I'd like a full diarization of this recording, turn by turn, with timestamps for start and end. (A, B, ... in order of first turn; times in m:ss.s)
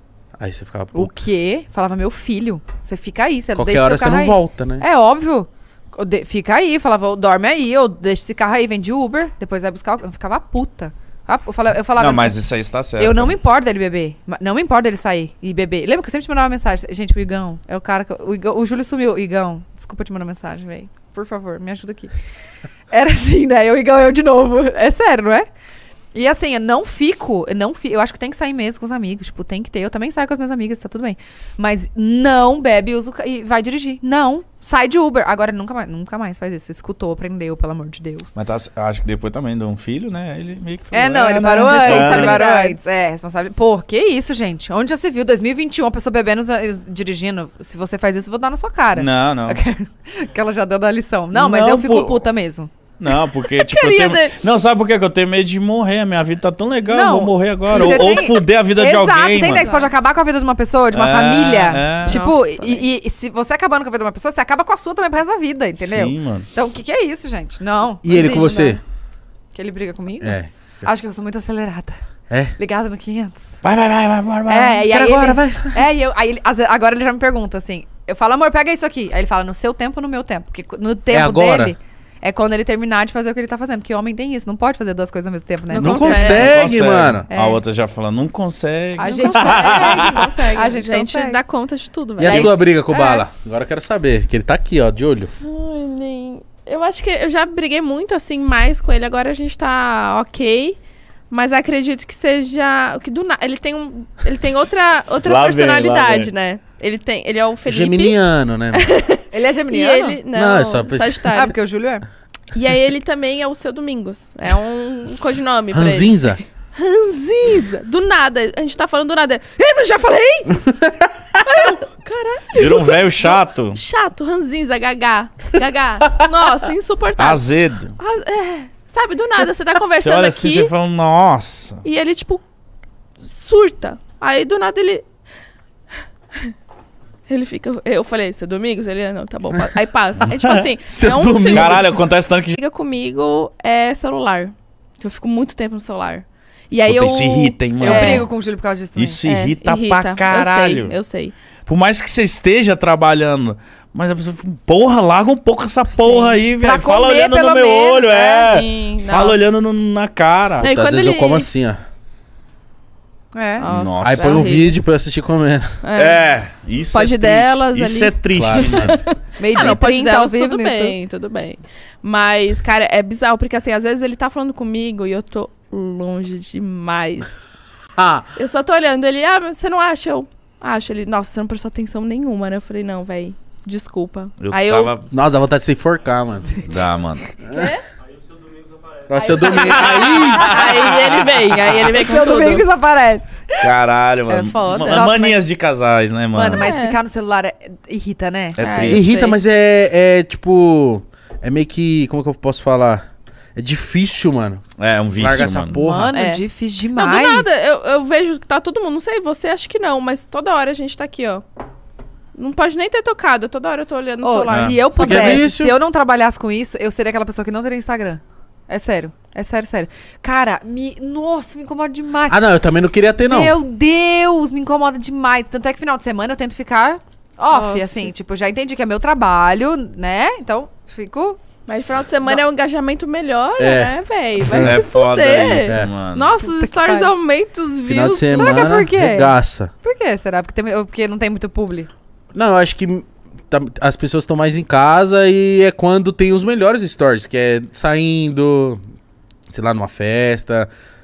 0:00.4-0:01.1 A
0:00.9-0:22.1 B
0:03.6-0:04.8 A
0:12.0-0:13.4 C
0:22.9-0:25.5 B
0:26.1-0:38.3 B
0:38.4-0:42.4 C
0:40.9-0:52.7 B
0:41.6-0:42.8 D
0:49.0-0:49.6 C
0:51.3-0:52.2 C
0:53.0-0:59.6 C
0:53.4-0:54.4 D
0:56.9-1:08.8 B
0:59.5-0:59.9 D
1:00.9-1:02.2 C
1:02.1-1:02.9 D
1:05.8-1:06.5 C
1:08.0-1:08.8 A
1:09.5-1:12.0 B
1:10.2-1:10.5 A
1:12.6-1:13.6 B
1:13.6-1:14.9 C
1:14.5-1:26.6 B
1:14.9-1:15.8 A
1:21.1-1:21.8 A
1:25.7-1:27.3 A
1:25.8-1:26.5 D
1:26.1-1:30.3 C
1:27.3-1:27.6 B
1:29.0-1:31.4 B
1:29.0-1:32.6 D
1:32.2-1:35.3 A
1:32.2-1:33.2 B
1:35.4-1:40.8 D
1:41.3-1:48.2 D
1:45.1-1:46.3 C
1:47.7-1:48.8 A
1:48.7-1:51.5 D
1:49.3-1:50.2 B
1:50.3-1:51.2 A
1:51.3-1:52.0 B
1:52.5-2:00.8 D
1:55.7-1:56.4 A
2:01.4-2:10.7 D
2:02.5-2:03.8 C
2:07.2-2:07.9 C
2:10.0-2:11.8 C
2:11.8-2:12.4 D
2:13.2-2:15.0 D
2:17.3-2:22.0 D
2:20.4-2:20.7 C
2:20.9-2:21.8 A
2:21.5-2:22.6 C
2:22.6-2:28.3 D
2:26.8-2:28.3 C
2:27.8-2:29.2 B
2:29.0-2:31.0 C
2:29.2-2:31.3 D
2:31.7-2:40.7 C
2:35.9-2:36.4 D
2:36.6-2:38.6 B
2:38.5-2:39.8 D
2:40.6-2:41.5 D
2:40.6-2:41.8 A
2:43.3-2:43.7 B
2:43.6-2:44.8 D
2:43.6-2:44.5 C
2:44.0-2:45.8 A
2:45.8-2:46.3 D
2:46.0-2:49.0 C
2:46.9-2:57.3 D
2:48.3-2:49.0 A
2:49.4-2:51.0 B
2:58.0-2:58.3 A
2:58.4-3:05.0 D
3:04.4-3:05.1 C
3:05.1-3:06.6 A
3:06.6-3:07.4 C
3:07.5-3:07.7 A
3:07.5-3:07.8 D
3:09.1-3:10.5 A
3:09.2-3:10.5 B
3:09.4-3:12.7 D
3:10.4-3:10.8 C
3:11.9-3:13.7 B
3:13.6-3:16.7 C
3:14.3-3:15.4 B
3:16.3-3:18.9 B
3:16.5-3:17.0 D
3:18.6-3:19.1 C
3:18.6-3:19.4 D
3:18.9-3:24.6 A
3:24.8-3:25.8 C
3:25.2-3:26.2 A
3:25.7-3:27.5 B
3:26.1-3:31.4 D
3:32.4-3:35.5 D
3:34.2-3:42.4 B
3:34.5-3:34.8 C
3:34.9-3:35.7 A
3:42.3-3:43.6 A
3:43.2-3:51.4 B
3:47.5-3:48.1 D
3:51.7-3:58.8 D
3:53.6-3:54.8 A
3:54.5-3:56.3 C
3:55.7-3:55.9 A
3:56.4-3:57.1 B
3:57.9-3:59.7 A
3:58.3-4:01.9 B
4:02.3-4:08.8 A
4:09.5-4:10.7 A